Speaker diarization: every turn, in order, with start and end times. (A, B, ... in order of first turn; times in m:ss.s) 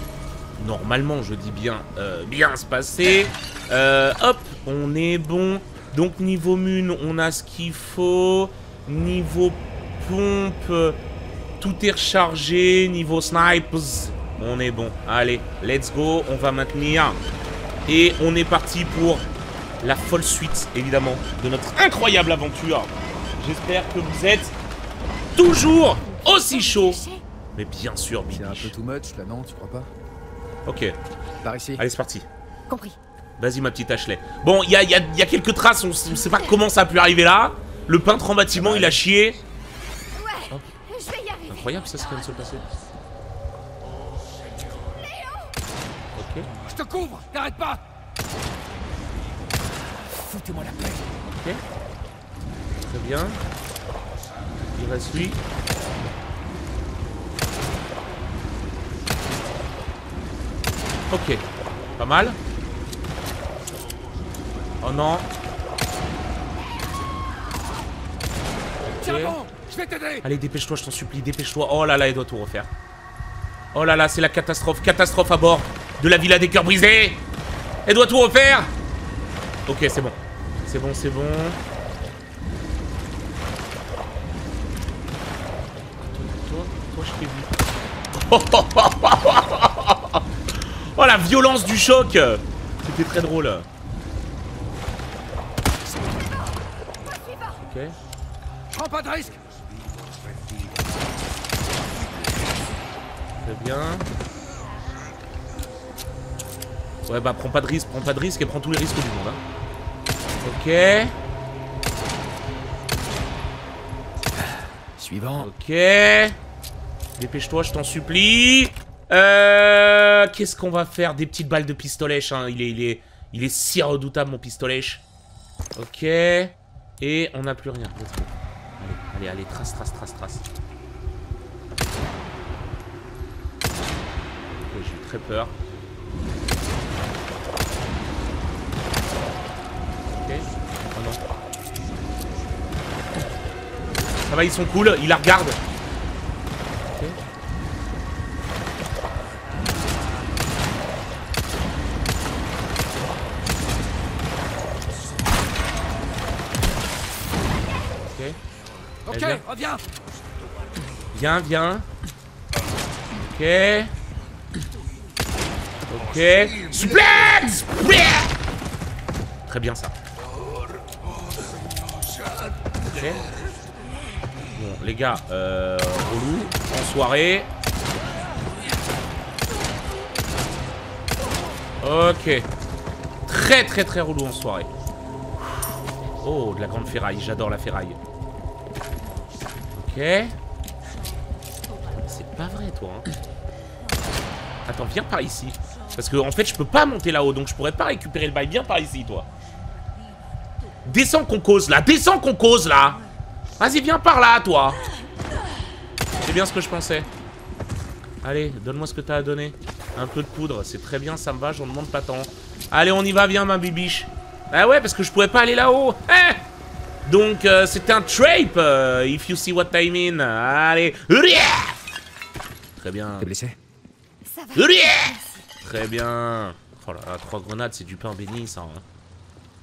0:00.6-0:11.0 A
0:11.6-0:17.2 A
0:17.9-0:19.2 A
0:19.8-0:24.5 A
0:25.3-0:27.0 A
0:26.0-0:27.2 B
0:27.6-0:28.7 A
0:28.3-0:29.9 C
0:30.6-0:30.9 A
0:31.4-0:31.8 C
0:31.8-0:32.2 A
0:32.7-0:33.0 B
0:33.4-0:39.4 A
0:38.5-0:39.0 C
0:40.1-0:42.7 B
0:41.5-0:42.7 A
0:45.0-0:45.5 B
0:46.1-0:46.5 A
0:46.7-0:47.8 C
0:49.9-0:51.1 C
0:51.3-0:51.6 A
0:52.8-0:53.4 A
0:54.8-0:55.4 A
1:01.1-1:01.4 A
1:02.0-1:02.4 A
1:04.8-1:05.3 A
1:08.9-1:09.4 A
1:09.1-1:10.2 C
1:10.2-1:12.7 A
1:13.7-1:17.2 A
1:17.8-1:18.7 A
1:19.7-1:21.6 A
1:26.0-1:27.6 A
1:28.3-1:33.7 A
1:37.6-1:38.0 A
1:38.7-1:39.3 C
1:43.4-1:44.1 A
1:47.0-1:49.4 A
1:50.4-1:51.1 A
1:55.0-1:55.5 C
1:55.4-1:56.4 A
1:57.2-2:05.0 A
2:05.8-2:10.4 A
2:14.5-2:15.5 A
2:20.2-2:21.2 A
2:24.2-2:25.6 A
2:26.9-2:27.2 A
2:38.0-2:38.4 A
2:39.0-2:39.8 C
2:39.1-2:39.4 A
2:41.1-2:41.9 A
2:43.2-2:43.9 A
2:45.9-2:48.3 A
2:49.5-2:49.9 A
2:52.9-2:53.3 A
2:54.5-2:57.5 A
3:01.8-3:02.5 A
3:03.3-3:04.7 A
3:06.2-3:08.0 A
3:09.7-3:10.3 A
3:11.9-3:13.1 A
3:14.6-3:19.3 A
3:20.8-3:23.0 A
3:23.6-3:24.8 A
3:26.2-3:27.1 A
3:28.2-3:36.4 A
3:37.0-3:41.8 A
3:42.8-3:43.3 A
3:43.2-3:43.6 C
3:44.2-3:45.5 B
3:44.5-3:48.8 A